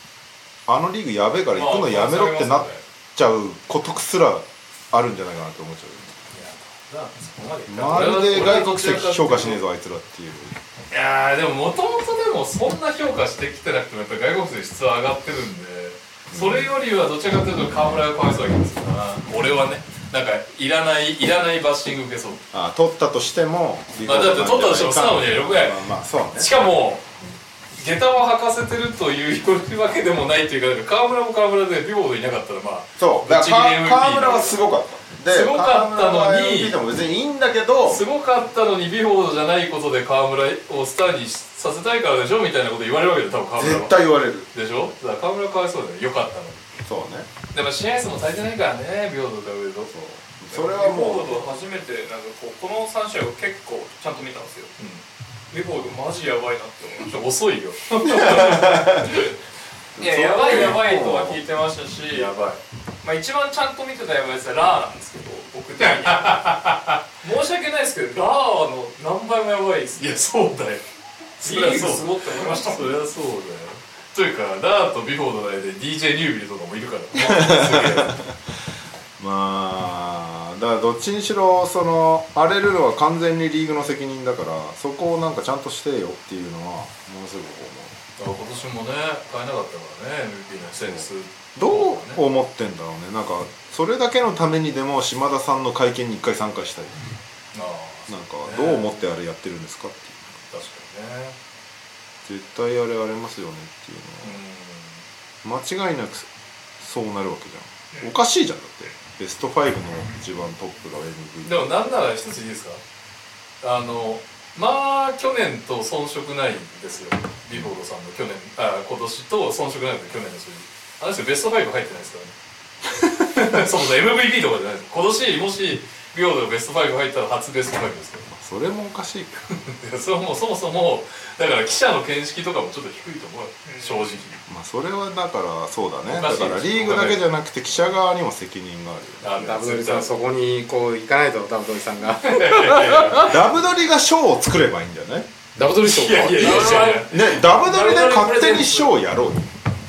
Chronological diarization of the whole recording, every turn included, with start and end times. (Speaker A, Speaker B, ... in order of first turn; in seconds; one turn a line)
Speaker A: 0.7-6.2
Speaker B: 1.5-2.8
Speaker C: 6.3-9.6
Speaker A: 7.7-10.6
Speaker C: 10.9-22.4
Speaker A: 16.3-16.7
Speaker A: 22.5-26.5
Speaker C: 24.0-25.8
Speaker C: 26.4-27.0
Speaker C: 27.8-34.6
Speaker A: 33.0-38.0
Speaker C: 35.2-36.8
Speaker C: 37.9-44.0
Speaker A: 43.6-44.5
Speaker C: 44.5-46.7
Speaker A: 46.8-47.3
Speaker C: 47.5-49.9
Speaker A: 49.9-51.5
Speaker B: 50.5-54.7
Speaker C: 54.8-55.0
Speaker B: 55.5-57.1
Speaker C: 57.0-59.3
Speaker A: 58.0-59.2
Speaker A: 60.0-61.4
Speaker B: 60.0-62.3
Speaker C: 60.5-60.8
Speaker C: 62.1-62.6
Speaker B: 63.0-66.3
Speaker C: 65.8-67.0
Speaker B: 67.2-70.2
Speaker C: 70.0-70.8
Speaker C: 71.4-78.2
Speaker B: 71.4-72.9
Speaker A: 77.1-78.3
Speaker A: 79.2-88.0
Speaker C: 88.2-92.2
Speaker A: 91.5-97.0
Speaker C: 97.5-98.9
Speaker A: 98.1-100.4
Speaker C: 100.5-101.3
Speaker A: 102.2-104.4
Speaker C: 104.2-105.0
Speaker A: 105.4-106.3
Speaker A: 106.8-111.7
Speaker C: 111.4-112.8
Speaker C: 113.6-122.3
Speaker C: 123.2-128.3
Speaker A: 128.3-129.5
Speaker C: 129.6-134.4
Speaker B: 133.6-134.1
Speaker A: 134.5-139.3
Speaker C: 136.1-137.2
Speaker C: 139.2-140.1
Speaker D: 139.3-143.3
Speaker C: 142.2-143.3
Speaker A: 143.2-145.3
Speaker D: 145.6-147.1
Speaker C: 145.8-148.9
Speaker A: 146.7-149.5